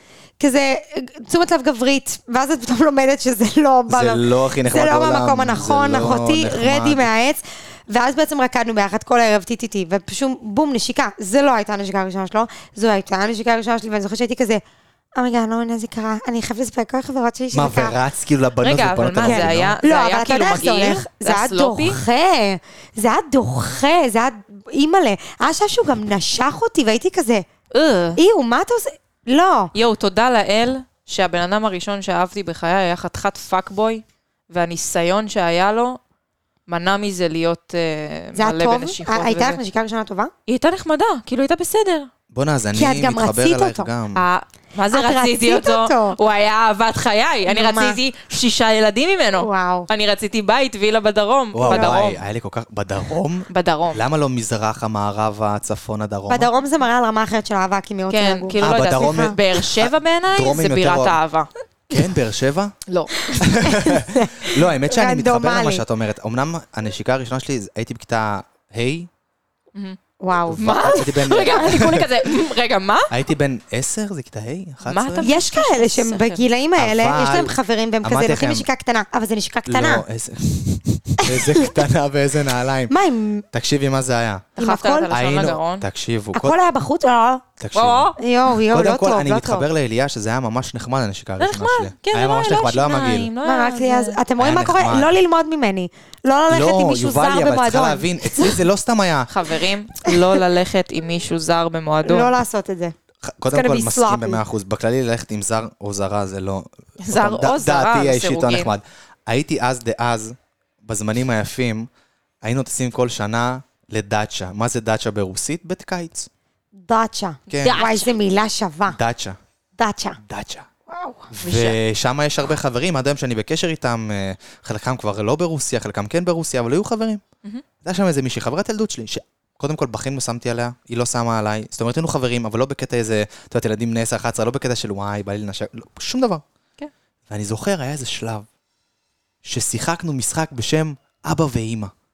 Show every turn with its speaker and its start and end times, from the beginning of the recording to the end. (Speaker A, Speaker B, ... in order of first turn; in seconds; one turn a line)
Speaker A: 0.4-14.6
Speaker B: 3.9-7.1
Speaker A: 15.2-18.0
Speaker B: 17.5-19.8
Speaker C: 18.6-22.0
Speaker A: 19.2-27.4
Speaker C: 27.7-28.2
Speaker A: 28.2-29.7
Speaker C: 29.8-36.0
Speaker C: 36.7-39.6
Speaker A: 38.4-40.3
Speaker C: 40.5-42.1
Speaker B: 42.3-44.2
Speaker A: 42.7-43.9
Speaker C: 44.1-52.2
Speaker A: 44.9-46.2
Speaker A: 47.5-48.0
Speaker A: 49.4-49.9
Speaker B: 51.5-56.5
Speaker A: 51.7-52.0
Speaker C: 53.5-54.0
Speaker A: 56.3-59.4
Speaker C: 58.1-61.5
Speaker B: 58.6-61.2
Speaker B: 61.9-62.8
Speaker C: 62.9-63.5
Speaker A: 63.2-65.8
Speaker B: 63.3-69.1
Speaker A: 70.2-71.3
Speaker B: 70.5-72.1
Speaker C: 70.6-73.1
Speaker B: 73.1-75.3
Speaker C: 74.9-76.4
Speaker A: 75.2-80.0
Speaker B: 76.8-78.7
Speaker B: 79.7-82.9
Speaker A: 81.2-81.8
Speaker A: 82.9-83.5
Speaker B: 83.5-84.5
Speaker C: 84.6-85.9
Speaker A: 84.6-85.2
Speaker B: 85.1-86.6
Speaker A: 86.3-87.5
Speaker B: 87.6-88.1
Speaker C: 87.8-88.2
Speaker A: 88.2-89.7
Speaker B: 88.7-93.3
Speaker C: 91.4-94.2
Speaker A: 93.4-98.6
Speaker B: 94.4-95.1
Speaker B: 96.5-99.3
Speaker C: 99.3-102.3
Speaker A: 100.1-100.4
Speaker A: 102.0-103.0
Speaker B: 103.2-111.9
Speaker A: 103.5-104.4
Speaker C: 107.0-108.7
Speaker B: 112.4-116.3
Speaker A: 116.8-119.0
Speaker B: 117.5-117.8
Speaker C: 117.6-118.1
Speaker B: 118.9-119.4
Speaker A: 119.8-120.2
Speaker B: 120.2-120.7
Speaker A: 120.9-121.3
Speaker B: 121.3-127.2
Speaker C: 121.4-121.8
Speaker B: 127.8-136.4
Speaker B: 137.3-138.5
Speaker B: 139.4-141.9